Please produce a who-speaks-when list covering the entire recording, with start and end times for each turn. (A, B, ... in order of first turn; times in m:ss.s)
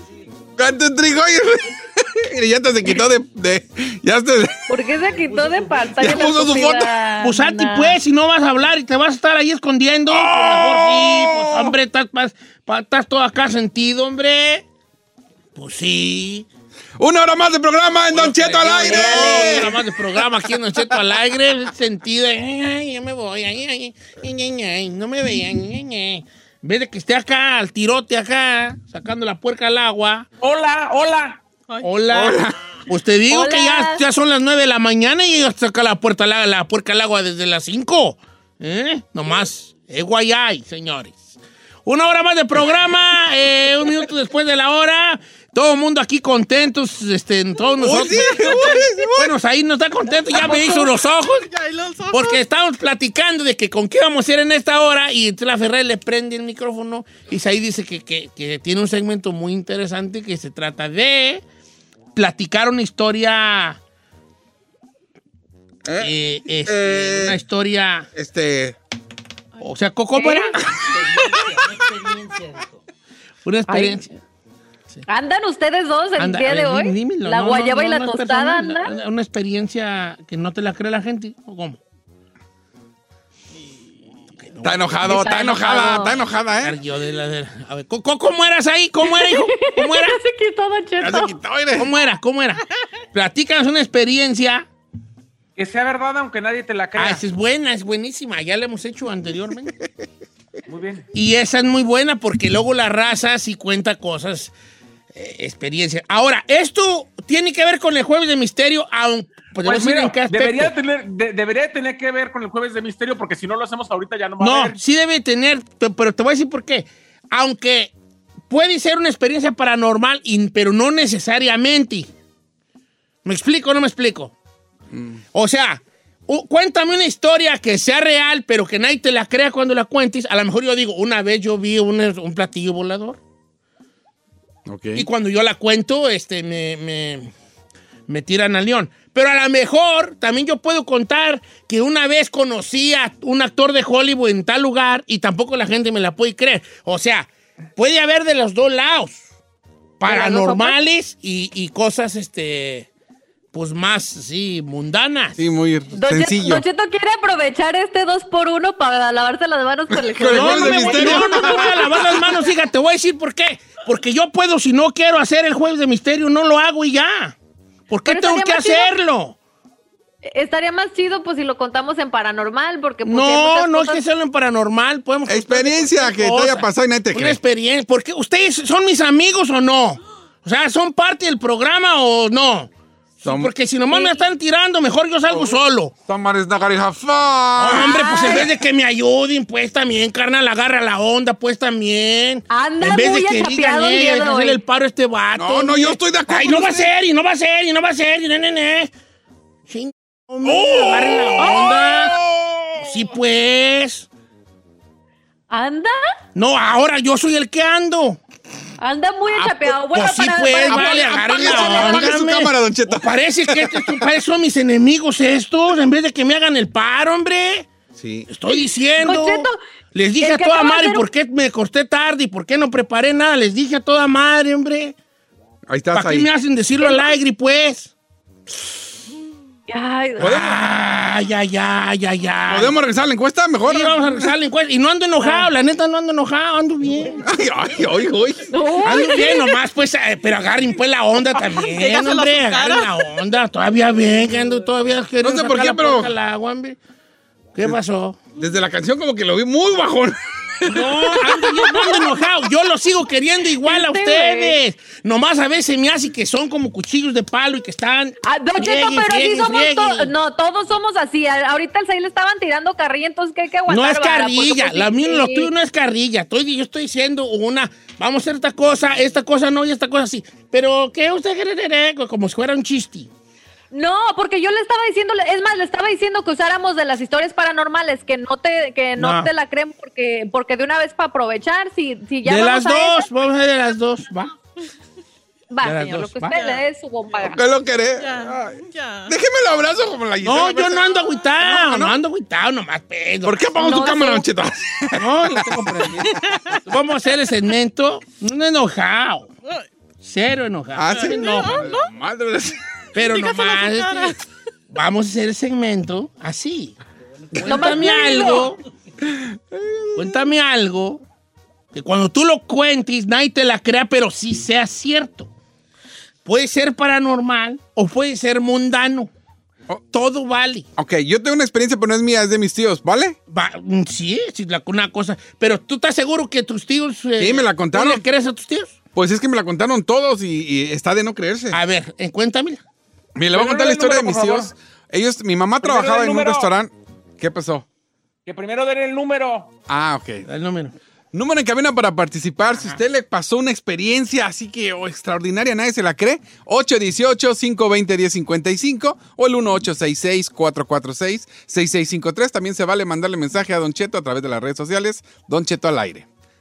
0:00.6-0:04.7 A
0:04.7-0:08.0 B
0:06.0-0:06.9 A
0:07.2-0:14.7 C
0:10.1-0:11.8 A
0:15.6-0:16.5 C
0:17.0-0:20.2 A
0:18.1-0:30.3 C
0:18.4-0:18.9 D
0:30.4-0:31.4 D
0:31.8-0:51.5 C
0:32.1-0:32.6 A
0:33.3-0:34.0 B
0:47.8-0:49.3 A
0:50.3-0:52.4 E
0:52.1-1:01.4 C
1:02.2-1:03.8 C
1:06.0-1:08.1 C
1:06.7-1:07.4 A
1:08.2-1:08.8 A
1:09.6-1:10.6 C
1:10.2-1:10.6 B
1:10.8-1:11.8 A
1:13.4-1:14.2 C
1:13.7-1:14.0 B
1:15.1-1:18.9 B
1:16.2-1:21.8 C
1:24.4-1:25.3 C
1:24.6-1:26.8 A
1:25.0-1:26.2 B
1:26.6-1:30.2 C
1:29.0-1:31.3 B
1:31.0-1:31.9 A
1:31.8-1:32.6 C
1:33.1-1:34.7 C
1:35.6-1:37.2 D
1:37.0-1:39.7 C
1:40.7-1:41.1 D
1:41.1-1:44.5 C
1:45.1-1:50.7 C
1:49.6-1:54.8 D
1:54.4-1:57.9 C
1:58.5-2:02.1 C
2:03.2-2:04.4 C
2:04.9-2:05.2 A
2:05.3-2:13.2 C
2:14.7-2:15.1 A
2:15.0-2:17.3 C
2:18.1-2:29.3 C
2:30.0-2:32.9 C
2:30.1-2:30.8 B
2:33.5-2:35.4 C
2:35.4-2:36.6 A
2:36.0-2:42.5 B
2:39.9-2:42.1 A
2:40.3-2:47.4 C
2:47.9-2:49.4 C
2:48.1-2:48.9 B
2:50.3-2:54.0 B
2:53.0-3:02.7 C
2:55.3-2:57.4 A
3:03.2-3:05.9 C
3:03.2-3:03.5 A
3:03.9-3:04.2 B
3:06.1-3:08.5 A
3:07.6-3:18.9 C
3:07.8-3:08.5 B
3:12.5-3:14.6 B
3:15.4-3:16.9 A
3:19.7-3:22.2 C
3:20.4-3:23.1 A
3:21.4-3:22.1 B
3:22.8-3:24.1 C
3:25.5-3:26.0 B
3:26.4-3:28.2 C
3:28.8-3:32.2 B
3:29.4-3:37.7 C
3:30.5-3:34.1 A
3:38.0-3:38.3 A
3:38.3-3:45.0 C
3:39.0-3:39.6 B
3:40.2-3:41.0 B
3:45.7-3:46.3 A
3:45.9-3:47.9 C
3:46.8-3:47.2 B
3:49.7-3:50.6 B
3:50.2-3:52.8 C
3:50.2-3:50.6 A
3:52.5-3:54.1 A
3:53.7-3:57.3 C
3:55.2-3:55.5 B
3:57.3-3:58.5 A
3:58.5-3:59.6 B
3:58.8-4:06.8 C
4:01.4-4:03.0 E
4:05.2-4:06.1 A
4:07.6-4:08.2 C
4:08.4-4:11.2 A
4:10.7-4:20.1 C
4:11.3-4:12.1 B
4:13.6-4:14.6 B
4:18.2-4:25.5 B
4:23.7-4:33.1 C
4:33.7-4:43.1 B
4:39.0-4:39.3 C
4:42.2-4:44.3 C
4:45.5-4:47.5 B
4:45.6-4:46.4 C
4:46.3-4:46.6 E
4:47.2-4:52.0 A
4:48.0-4:49.1 E
4:50.2-4:53.4 C
4:53.2-4:56.0 A
4:53.6-4:54.3 B
4:55.0-4:59.3 C
5:00.0-5:01.6 C
5:00.8-5:02.6 A
5:01.1-5:01.9 E
5:03.0-5:04.2 C
5:03.0-5:04.2 E
5:04.7-5:06.8 C
5:07.3-5:08.6 C
5:07.4-5:08.5 B
5:09.1-5:10.2 A
5:10.0-5:11.0 C
5:11.7-5:15.3 C
5:16.2-5:19.1 C
5:19.9-5:20.7 C
5:20.8-5:23.2 A
5:23.3-5:28.8 C
5:27.2-5:28.0 A
5:29.0-5:31.6 A
5:31.5-5:32.6 C
5:33.2-5:37.7 A
5:33.3-5:34.5 D
5:35.6-5:36.5 D
5:38.2-5:39.5 D
5:39.7-5:40.3 A
5:40.3-5:40.7 C
5:41.1-5:56.1 A